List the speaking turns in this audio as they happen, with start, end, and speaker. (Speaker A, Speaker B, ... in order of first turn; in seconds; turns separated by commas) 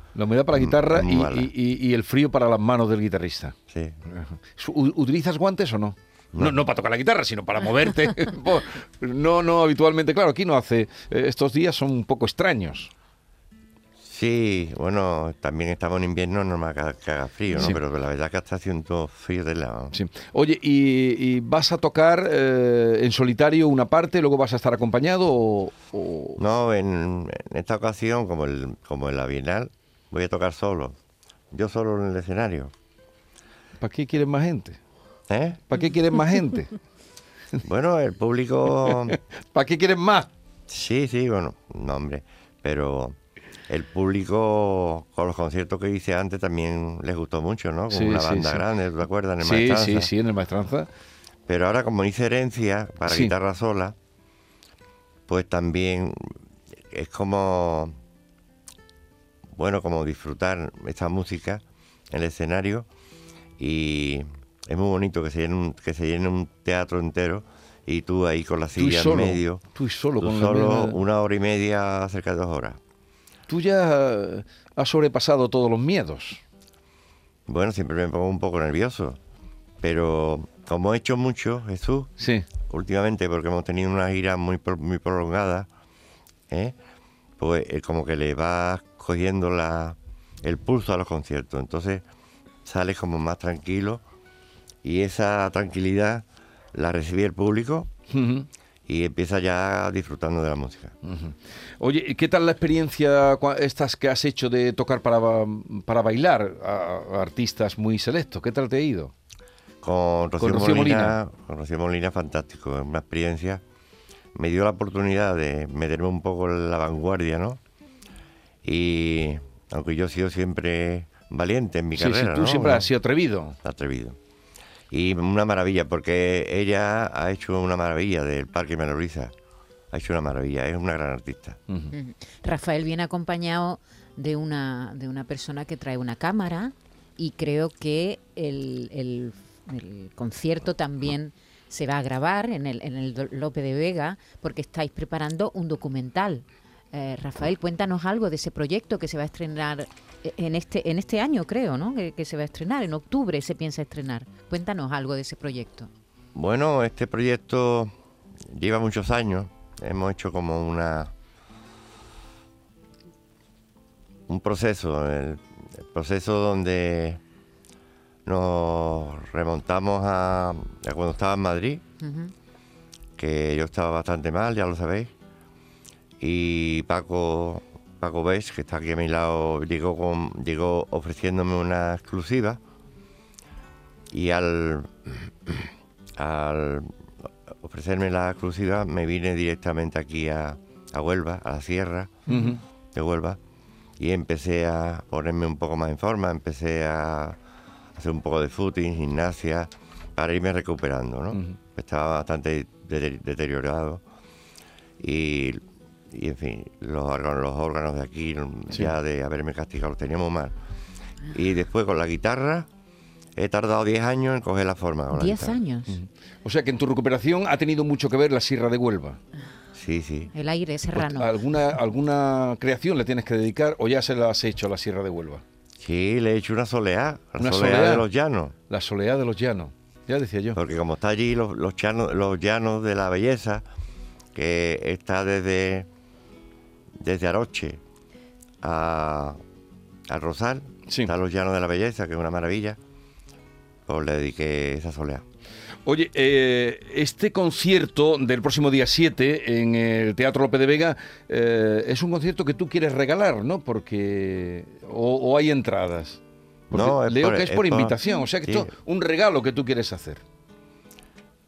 Speaker A: 0.1-3.5, Speaker B: 0.5-1.5, Speaker B: 3.7-4.0, Speaker A: 4.1-12.9, Speaker B: 14.0-19.9, Speaker A: 19.9-26.4, Speaker B: 26.4-30.9, Speaker B: 31.5-32.7, Speaker A: 33.8-34.8, Speaker B: 35.3-35.7, Speaker A: 35.7-36.8, Speaker B: 37.6-39.2, Speaker A: 38.8-40.3, Speaker B: 40.7-43.1, Speaker B: 43.7-50.1, Speaker A: 47.9-48.7, Speaker A: 49.4-50.9, Speaker B: 51.5-53.9, Speaker A: 53.0-53.3, Speaker B: 55.3-56.4, Speaker B: 56.9-57.9, Speaker B: 59.5-62.9, Speaker B: 63.6-69.6, Speaker A: 68.8-71.0, Speaker B: 70.2-72.8, Speaker A: 73.5-76.4, Speaker B: 77.5-79.2, Speaker B: 79.8-82.1, Speaker A: 82.2-82.5, Speaker B: 82.7-85.7, Speaker B: 86.5-86.7, Speaker B: 87.4-92.0, Speaker B: 92.6-94.0, Speaker B: 94.8-97.9, Speaker A: 98.1-98.5, Speaker B: 98.9-100.9, Speaker A: 101.0-109.1, Speaker B: 109.8-113.6, Speaker A: 110.4-111.2, Speaker B: 114.3-117.6, Speaker B: 118.6-122.8, Speaker A: 122.0-123.5, Speaker B: 123.6-124.2, Speaker B: 124.9-129.3, Speaker B: 129.9-131.6, Speaker A: 131.7-131.9, Speaker C: 131.9-155.9, Speaker B: 156.3-157.9, Speaker B: 158.5-161.1, Speaker B: 164.3-167.2, Speaker B: 168.2-171.8, Speaker C: 172.0-172.3, Speaker B: 173.2-175.1, Speaker B: 176.2-182.6, Speaker B: 184.1-186.9, Speaker B: 187.6-192.1, Speaker A: 192.3-192.6, Speaker B: 192.9-193.4, Speaker B: 194.0-197.4, Speaker B: 198.0-204.0, Speaker B: 205.0-210.5, Speaker B: 211.3-212.7, Speaker B: 213.3-215.6, Speaker C: 215.1-216.0, Speaker A: 215.9-219.2, Speaker B: 219.7-220.3, Speaker C: 220.3-221.3, Speaker A: 220.9-225.4, Speaker B: 225.8-228.5, Speaker A: 227.4-228.1, Speaker A: 228.7-230.6, Speaker B: 230.5-233.6, Speaker B: 234.3-235.9, Speaker B: 237.0-237.8, Speaker B: 238.6-239.4, Speaker B: 240.1-242.8, Speaker B: 243.9-245.2, Speaker A: 245.8-256.2, Speaker B: 256.7-258.7, Speaker A: 256.7-260.2